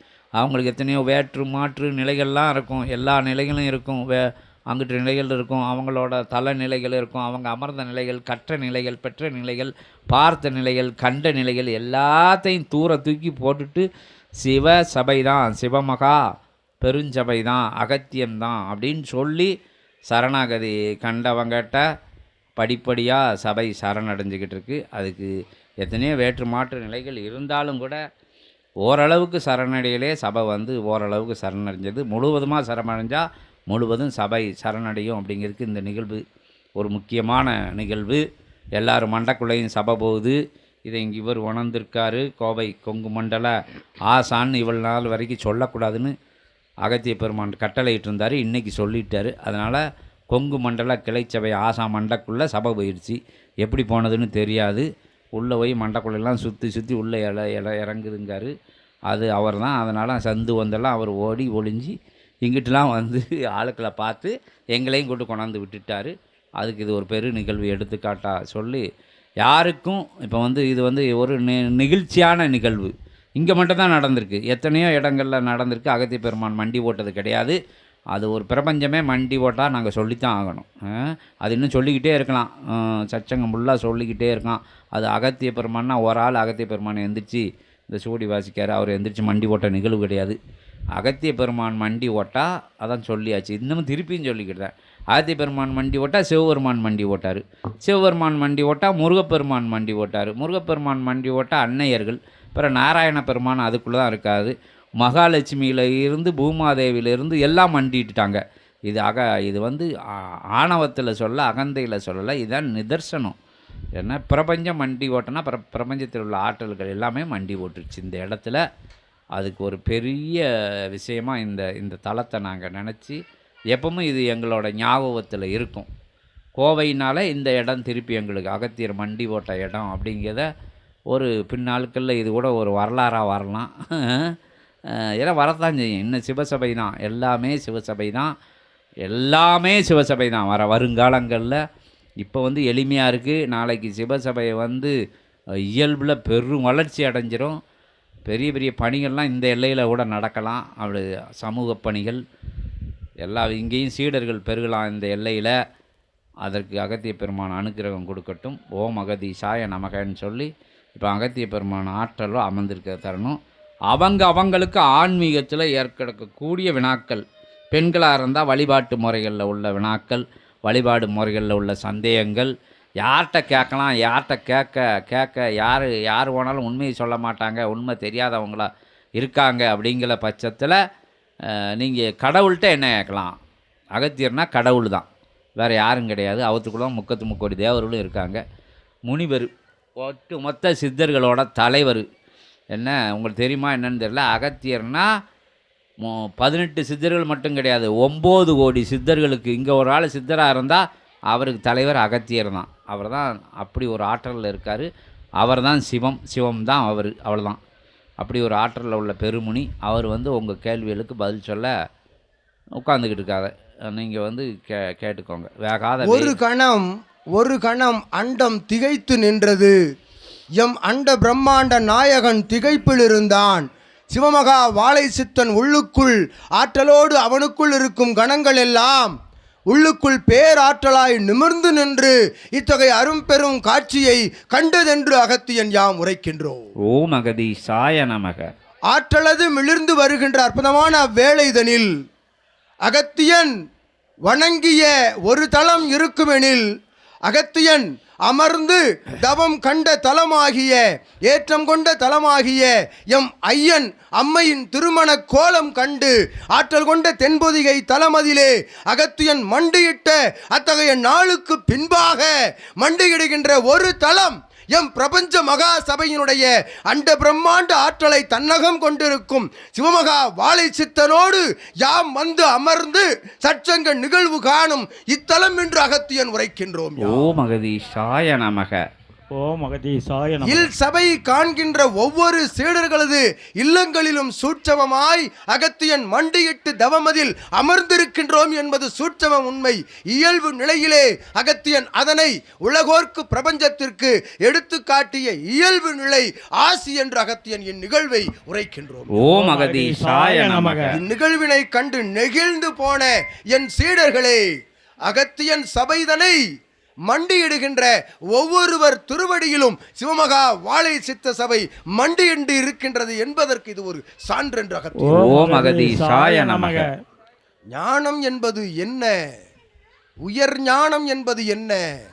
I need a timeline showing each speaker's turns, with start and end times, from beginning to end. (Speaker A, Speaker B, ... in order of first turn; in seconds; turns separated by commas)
Speaker A: 0.4-13.8, Speaker A: 14.4-16.2, Speaker A: 16.8-19.5, Speaker A: 20.1-21.8, Speaker A: 22.6-25.3, Speaker A: 25.8-28.0, Speaker A: 28.8-36.2, Speaker A: 36.8-38.2, Speaker A: 38.8-43.5, Speaker A: 44.1-46.1, Speaker A: 46.9-58.5, Speaker A: 59.1-68.8, Speaker A: 69.4-77.6, Speaker A: 78.1-90.4, Speaker A: 91.0-109.9, Speaker A: 110.5-113.3, Speaker A: 114.0-118.6, Speaker A: 119.4-123.2, Speaker A: 123.7-125.9, Speaker A: 126.6-130.5, Speaker A: 131.1-134.3, Speaker A: 134.9-138.3, Speaker A: 139.1-141.6, Speaker A: 142.2-144.9, Speaker A: 145.7-147.6, Speaker A: 148.3-152.2, Speaker A: 153.2-155.6, Speaker A: 156.4-163.4, Speaker A: 163.9-180.8, Speaker A: 181.8-183.3, Speaker A: 183.9-185.1, Speaker A: 185.6-188.4, Speaker A: 189.1-192.1, Speaker A: 192.7-195.1, Speaker A: 196.0-204.9, Speaker A: 205.4-207.6, Speaker A: 208.2-211.7, Speaker A: 212.8-216.4, Speaker B: 216.0-219.8, Speaker B: 220.6-229.2, Speaker B: 229.7-236.6, Speaker A: 236.9-238.5, Speaker B: 238.9-241.9, Speaker B: 242.8-243.5, Speaker B: 244.3-246.7, Speaker B: 247.3-277.3, Speaker A: 277.0-278.8, Speaker C: 279.4-280.7, Speaker B: 280.4-299.1, Speaker A: 299.1-300.9, Speaker C: 299.3-300.9, Speaker B: 300.9-304.4, Speaker B: 305.1-306.4, Speaker B: 307.1-315.3, Speaker C: 315.0-317.0, Speaker A: 315.1-316.9, Speaker B: 317.7-319.1, Speaker B: 320.2-321.8